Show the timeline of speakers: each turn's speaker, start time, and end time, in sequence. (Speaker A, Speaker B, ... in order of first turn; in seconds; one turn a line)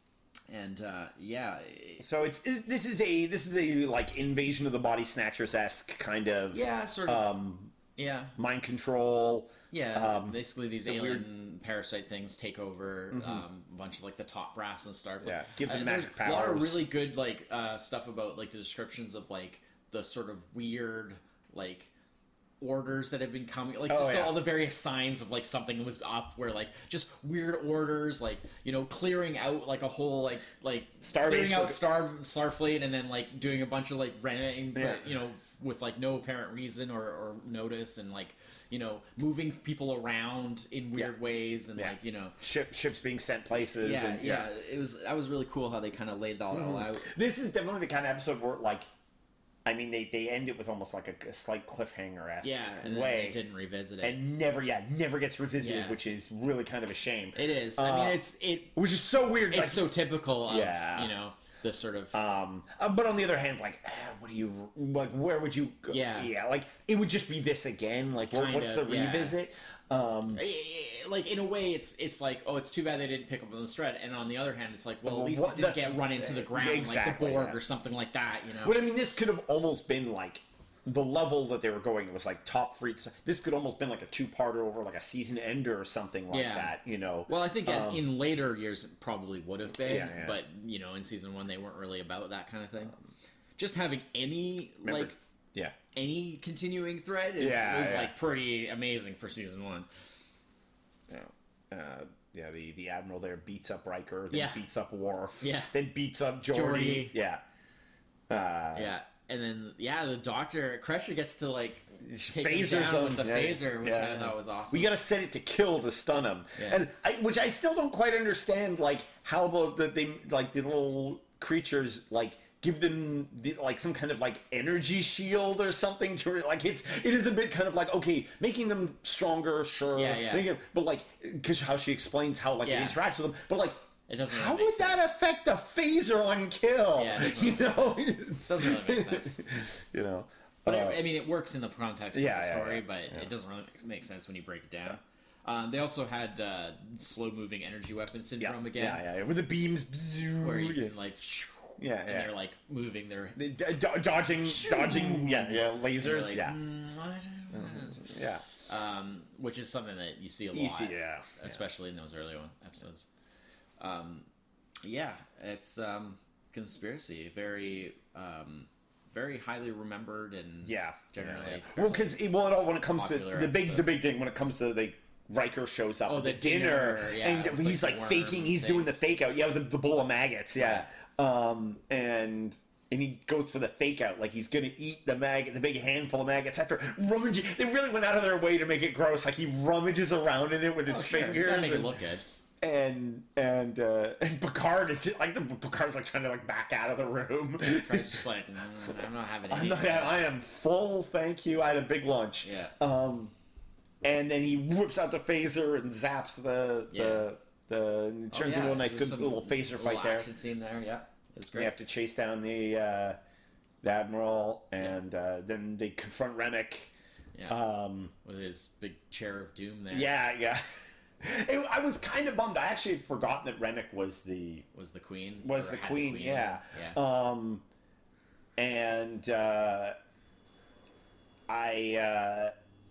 Speaker A: 0.5-2.0
Speaker B: 2.0-7.7
Speaker A: 6.5-7.3
Speaker A: 8.0-8.3
Speaker B: 8.3-11.2
Speaker A: 9.7-21.9
Speaker B: 13.1-13.4
Speaker B: 15.2-16.9
Speaker A: 22.6-42.4
Speaker B: 23.9-24.4
Speaker B: 31.0-31.8
Speaker B: 34.7-35.0
Speaker B: 41.8-44.5
Speaker A: 43.6-47.1
Speaker B: 46.5-48.9
Speaker B: 49.6-53.4
Speaker A: 52.4-54.1
Speaker B: 54.0-58.2
Speaker A: 55.6-56.0
Speaker A: 57.3-58.7
Speaker B: 58.7-59.9
Speaker A: 59.5-62.1
Speaker B: 60.5-61.1
Speaker B: 62.1-70.4
Speaker A: 65.9-66.3
Speaker A: 68.3-69.3
Speaker A: 70.3-78.8
Speaker B: 75.0-77.6
Speaker B: 78.6-88.0
Speaker A: 86.3-86.8
Speaker A: 87.3-93.0
Speaker B: 89.8-90.4
Speaker A: 93.6-95.1
Speaker B: 94.8-95.8
Speaker A: 95.9-99.9
Speaker B: 97.4-98.1
Speaker B: 101.1-107.4
Speaker A: 104.3-104.6
Speaker A: 105.4-105.7
Speaker A: 106.5-107.1
Speaker B: 108.3-108.9
Speaker A: 108.7-114.9
Speaker B: 112.0-141.0
Speaker A: 116.6-116.8
Speaker A: 129.9-130.5
Speaker A: 132.6-133.0
Speaker A: 134.1-135.1
Speaker A: 136.9-139.4
Speaker A: 140.7-149.0
Speaker B: 142.1-143.3
Speaker B: 148.4-150.9
Speaker A: 150.4-153.4
Speaker B: 151.8-152.3
Speaker B: 153.3-156.6
Speaker A: 154.4-158.1
Speaker B: 157.5-158.5
Speaker A: 158.6-163.1
Speaker B: 160.5-161.6
Speaker A: 163.8-164.3
Speaker A: 164.8-172.2
Speaker B: 170.6-191.9
Speaker A: 172.8-173.9
Speaker A: 176.1-179.0
Speaker A: 180.6-180.9
Speaker A: 190.8-192.2
Speaker B: 192.6-198.2
Speaker A: 197.6-200.3
Speaker B: 199.5-203.3
Speaker A: 202.4-202.7
Speaker B: 204.0-210.3
Speaker A: 206.9-207.2
Speaker A: 208.3-211.7
Speaker B: 211.5-213.2
Speaker B: 213.8-216.9
Speaker B: 217.5-218.1
Speaker A: 218.2-220.1
Speaker B: 219.9-224.7
Speaker A: 224.7-227.0
Speaker B: 225.4-227.6
Speaker B: 228.6-229.9
Speaker B: 231.5-232.5